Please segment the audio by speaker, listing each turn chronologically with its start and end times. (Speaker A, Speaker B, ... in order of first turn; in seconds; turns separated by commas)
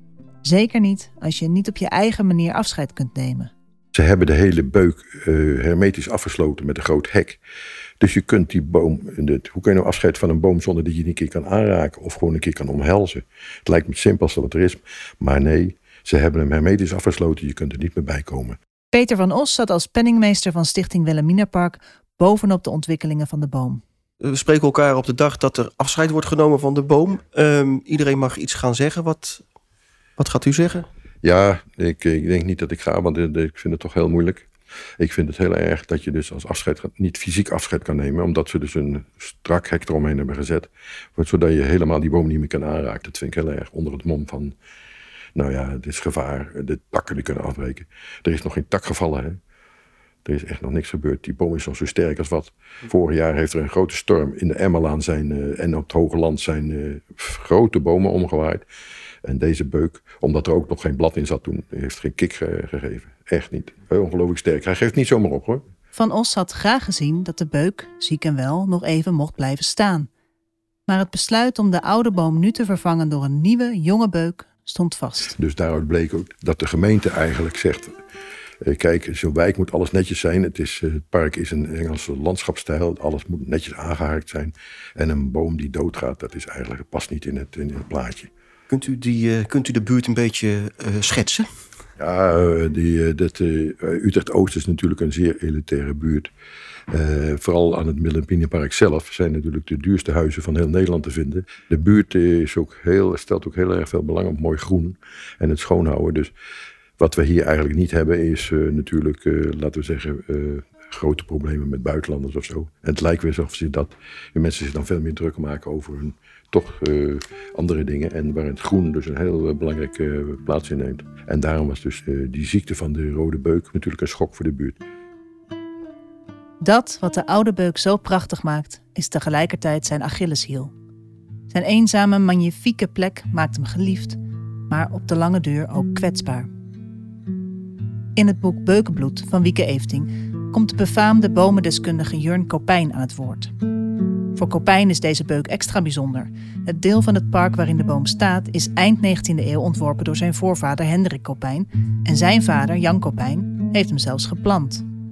Speaker A: 0.4-3.5, Speaker B: 3.9-7.4, Speaker B: 8.0-18.6, Speaker A: 18.9-23.8, Speaker C: 24.2-29.4, Speaker C: 30.2-30.9, Speaker B: 31.2-44.5, Speaker B: 45.3-49.4, Speaker B: 50.2-58.6, Speaker B: 59.2-65.6, Speaker A: 65.9-70.1, Speaker A: 70.9-75.3, Speaker B: 75.3-77.9, Speaker B: 78.6-88.3, Speaker C: 88.7-91.5, Speaker B: 92.0-96.3, Speaker B: 96.9-106.3, Speaker B: 107.0-124.8, Speaker A: 126.6-130.7, Speaker A: 131.5-134.2, Speaker A: 134.7-136.5, Speaker A: 138.2-143.5, Speaker A: 144.3-154.8